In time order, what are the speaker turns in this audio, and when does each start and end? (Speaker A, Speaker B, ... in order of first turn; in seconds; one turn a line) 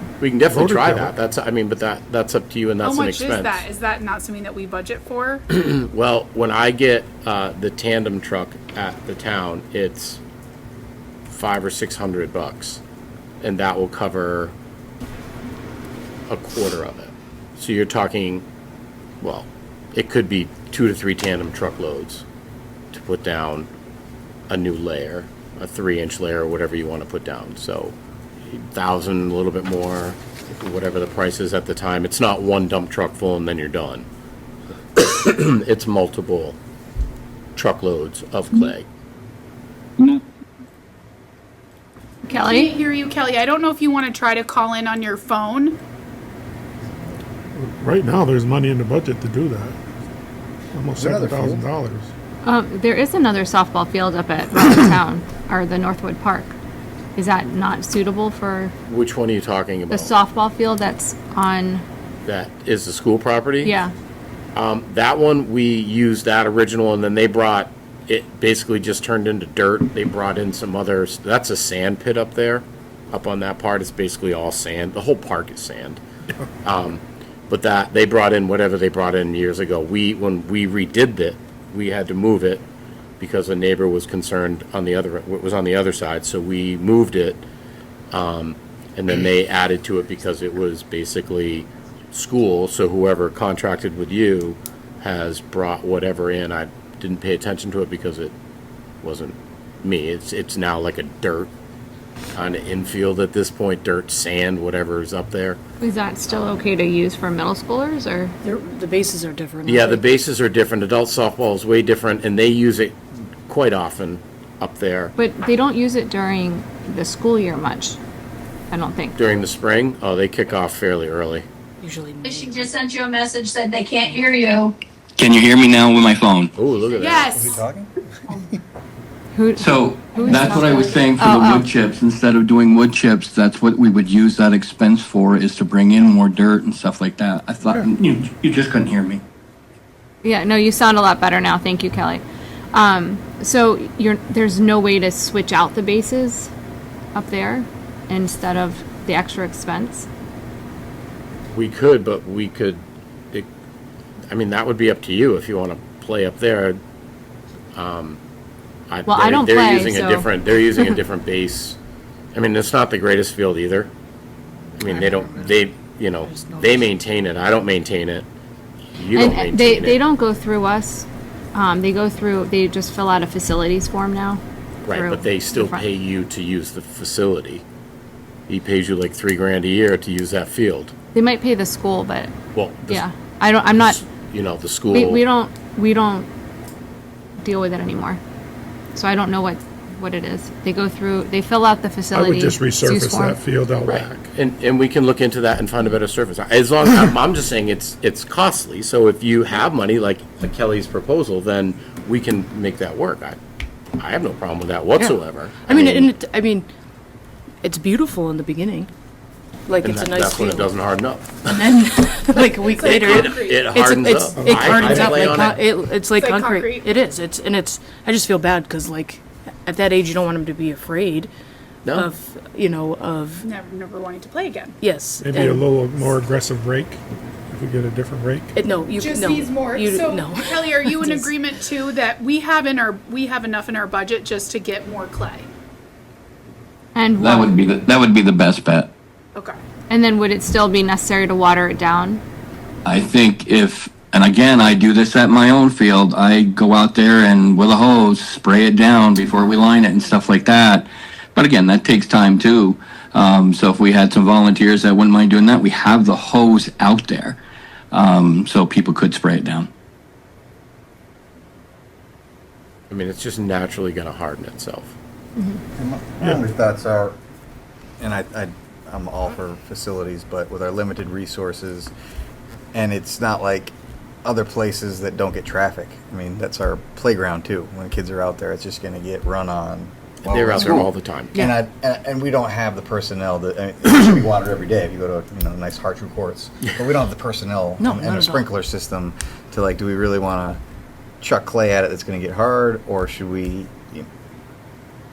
Speaker A: 0.2-3.7
Speaker B: 0.5-1.1
Speaker C: 2.8-5.4
Speaker A: 5.5-10.2
Speaker A: 11.3-12.8
Speaker A: 13.4-14.5
Speaker A: 16.3-18.4
Speaker A: 19.2-22.2
Speaker A: 22.9-23.7
Speaker A: 24.5-34.1
Speaker A: 35.0-36.6
Speaker A: 37.5-38.9
Speaker D: 42.3-42.7
Speaker C: 42.3-45.8
Speaker B: 47.5-49.8
Speaker B: 50.7-52.1
Speaker E: 51.0-51.7
Speaker D: 52.4-56.5
Speaker D: 57.1-58.7
Speaker A: 58.9-60.1
Speaker D: 59.9-61.8
Speaker A: 62.2-63.7
Speaker D: 63.6-63.9
Speaker A: 64.5-76.0
Speaker A: 76.6-82.6
Speaker A: 83.2-87.4
Speaker A: 88.1-98.3
Speaker A: 99.0-101.5
Speaker A: 102.3-105.6
Speaker D: 105.8-108.3
Speaker A: 106.3-106.5
Speaker F: 108.4-110.0
Speaker A: 109.7-115.1
Speaker D: 115.2-118.0
Speaker D: 118.7-119.2
Speaker A: 119.2-121.5
Speaker F: 121.8-122.7
Speaker G: 122.2-124.8
Speaker H: 125.2-126.5
Speaker A: 126.5-127.5
Speaker C: 127.0-127.6
Speaker E: 127.3-128.5
Speaker D: 129.3-131.7
Speaker H: 129.6-139.2
Speaker G: 130.3-131.1
Speaker D: 140.2-146.5
Speaker D: 147.1-150.1
Speaker A: 151.5-153.5
Speaker A: 154.3-156.8
Speaker A: 157.7-158.2
Speaker A: 158.9-161.8
Speaker D: 159.1-160.8
Speaker A: 162.3-163.9
Speaker A: 164.8-168.3
Speaker F: 164.8-165.5
Speaker F: 166.3-166.8
Speaker A: 168.9-170.0
Speaker D: 169.1-175.8
Speaker A: 174.8-177.6
Speaker A: 178.5-180.9
Speaker D: 181.1-182.3
Speaker A: 182.5-183.1
Speaker D: 182.9-184.0
Speaker A: 183.7-185.2
Speaker D: 184.9-186.3
Speaker D: 187.4-188.2
Speaker D: 188.9-193.4
Speaker B: 192.1-194.3
Speaker A: 193.8-203.4
Speaker A: 204.0-206.1
Speaker F: 205.0-206.7
Speaker F: 207.6-208.9
Speaker F: 209.7-210.7
Speaker A: 209.8-211.7
Speaker F: 211.5-213.2
Speaker C: 212.4-213.7
Speaker A: 212.8-215.6
Speaker F: 213.7-221.3
Speaker B: 214.3-215.3
Speaker C: 216.2-216.9
Speaker F: 221.9-223.4
Speaker C: 223.4-224.7
Speaker F: 224.8-225.7
Speaker B: 225.2-228.5
Speaker F: 228.5-231.3
Speaker C: 229.0-235.5
Speaker D: 236.9-237.5
Speaker H: 237.2-238.9
Speaker D: 239.9-242.2
Speaker H: 242.8-257.4
Speaker H: 257.9-259.7
Speaker A: 262.9-264.9
Speaker E: 265.8-267.2
Speaker E: 268.0-271.9
Speaker E: 272.7-273.7
Speaker E: 274.2-290.6
Speaker A: 280.3-281.3
Speaker F: 287.8-288.5
Speaker E: 291.2-294.1